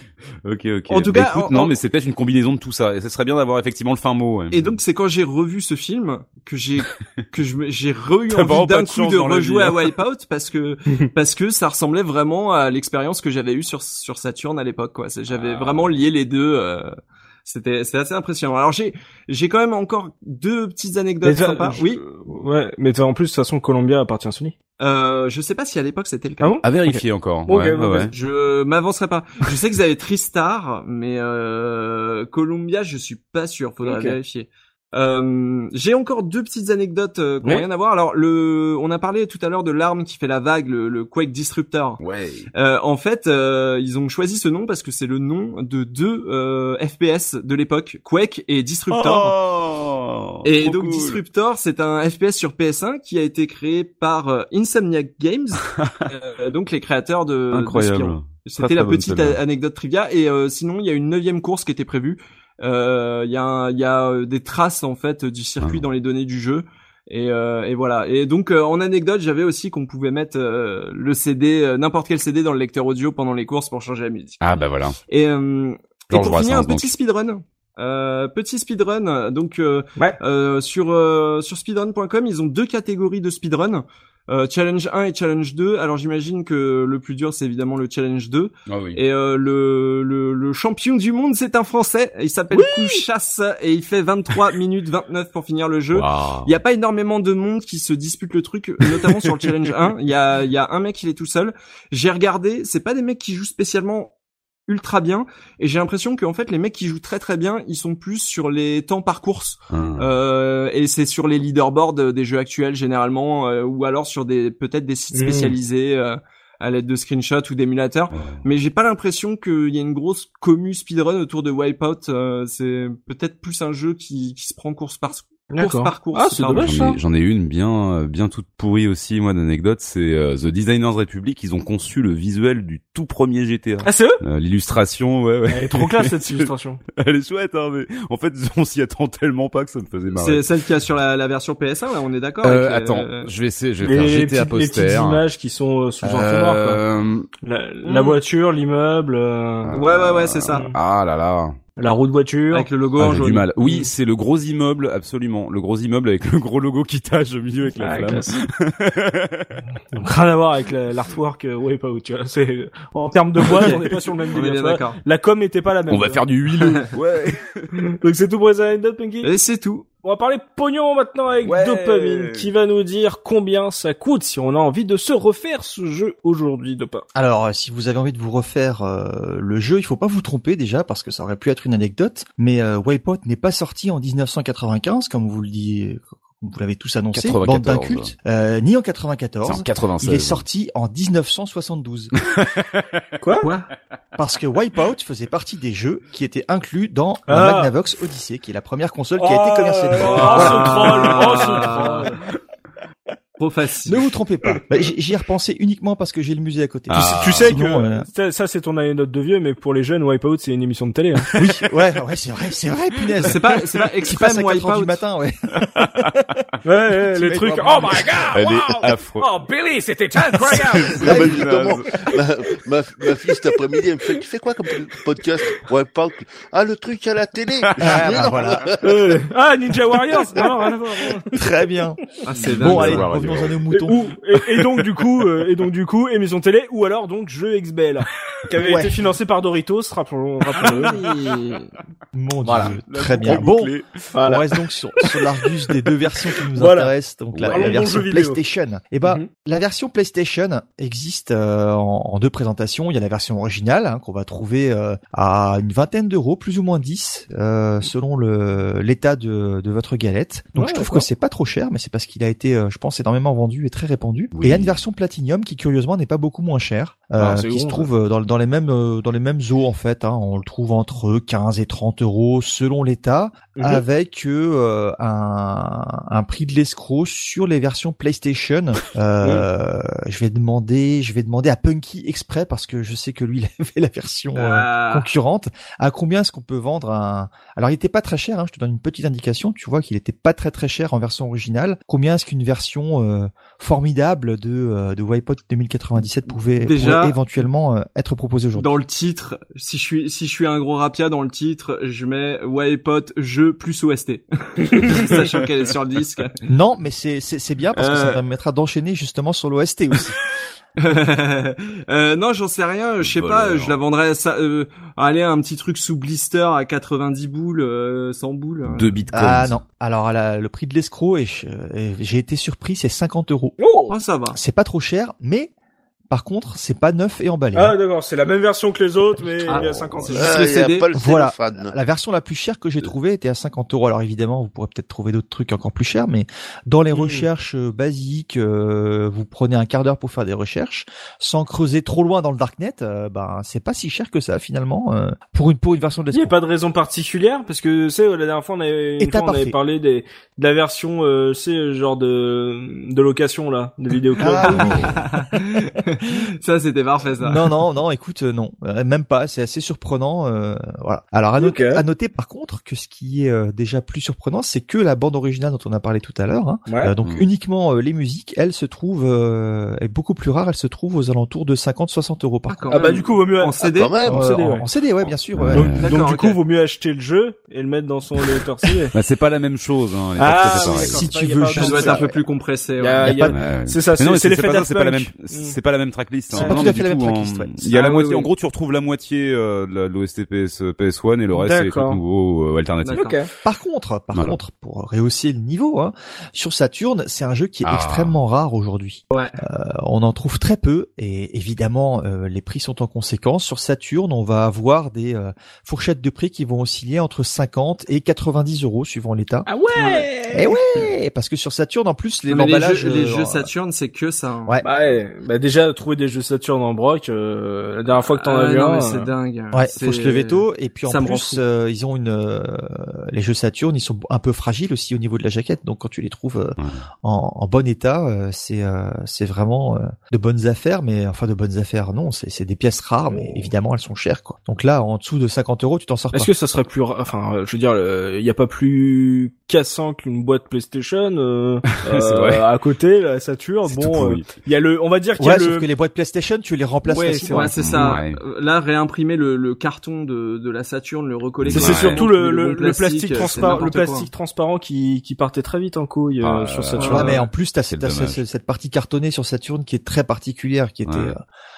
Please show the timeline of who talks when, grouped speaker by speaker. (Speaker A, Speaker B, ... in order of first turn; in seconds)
Speaker A: 0.4-4.8, 6.9-7.2, 8.3-9.9, 15.3-16.0, 26.6-28.1, 42.0-42.5, 48.9-51.2, 55.6-56.0, 57.5-59.4, 74.4-75.0, 76.1-76.9, 88.7-89.0, 95.9-96.5, 98.8-99.3, 109.7-110.1, 118.1-118.4, 126.5-140.4, 142.4-145.2, 146.0-147.3, 149.6-151.6, 153.0-159.6, 165.9-167.9, 171.4-172.5, 187.1-188.1, 189.4-190.4, 192.2-193.0, 206.9-207.6, 211.3-211.6, 215.8-216.1, 218.3-219.3, 220.2-222.0, 227.6-228.5, 232.6-233.6, 240.8-241.3, 242.5-244.0, 247.3-247.9, 264.3-264.8, 313.0-313.7, 318.6-319.6, 375.0-375.9, 378.9-381.1, 383.3-393.1, 397.6-398.2, 426.6-426.8, 441.7-442.4, 443.6-444.4, 447.6-448.2, 451.4-452.1, 453.2-453.6, 456.2-458.2, 460.9-461.1
Speaker B: 0.9-1.8, 4.5-16.9, 17.4-22.0, 24.8-26.6, 28.1-42.0, 42.5-49.3, 50.4-74.5, 75.1-104.1, 104.7-126.8, 140.1-143.3, 147.8-148.2, 149.8-150.7, 152.5-153.9, 163.4-165.0, 169.2-169.8, 193.4-193.7, 200.2-202.1, 203.4-204.0, 213.2-215.0, 232.3-233.2, 240.6-241.7, 284.3-285.1, 296.6-297.2, 298.5-306.4, 307.7-308.2, 310.8-319.1, 323.9-324.4, 329.5-330.9, 354.4-357.5, 372.5-373.9, 375.8-376.4, 380.5-380.8, 381.5-383.1, 387.7-388.3, 392.8-393.2, 412.3-414.6, 418.1-421.4, 447.3-454.1, 456.8-457.1
Speaker C: 21.2-24.5, 26.4-28.1, 33.8-34.2, 92.5-93.0, 115.1-115.5, 125.5-127.0, 133.8-134.2, 135.5-136.8, 143.8-146.8, 147.4-149.8, 151.8-152.7, 157.8-158.4, 159.9-166.2, 167.9-169.3, 170.0-177.0, 193.2-193.5, 197.3-197.7, 199.2-202.2, 206.9-211.3, 216.6-221.1, 228.8-231.2, 232.7-233.0, 233.7-240.9, 242.4-242.7, 244.1-244.4, 246.5-246.9, 247.4-248.4, 249.0-249.3, 260.6-261.0, 267.2-267.9, 273.6-273.8, 279.2-279.5, 323.6-323.9, 327.5-330.4, 336.9-337.3, 346.1-355.0, 361.4-361.8, 366.7-366.9, 372.7-374.6, 375.5-378.9, 380.2-382.0, 382.8-385.6, 386.3-386.6, 391.3-392.0, 392.9-393.3, 409.4-410.6, 414.6-419.1, 436.1-445.7, 446.8-448.0, 451.5-457.2
Speaker D: 177.1-192.1, 194.1-201.1, 203.8-208.1, 211.4-213.4, 214.0-215.3, 217.1-218.2, 221.0-221.5, 227.8-228.7, 231.3-232.0, 232.6-234.1, 238.6-238.9, 242.1-298.7, 306.5-310.1, 319.1-323.6, 324.3-325.5, 326.1-327.7, 330.9-346.3, 349.0-349.5, 354.2-355.0, 357.2-373.0, 374.0-375.7, 380.5-382.1, 383.0-383.4, 386.3-387.5, 393.4-409.5, 410.3-413.5, 419.5-436.3, 445.2-447.5, 456.8-461.2
Speaker E: 221.0-228.9, 329.5-331.7, 373.6-374.4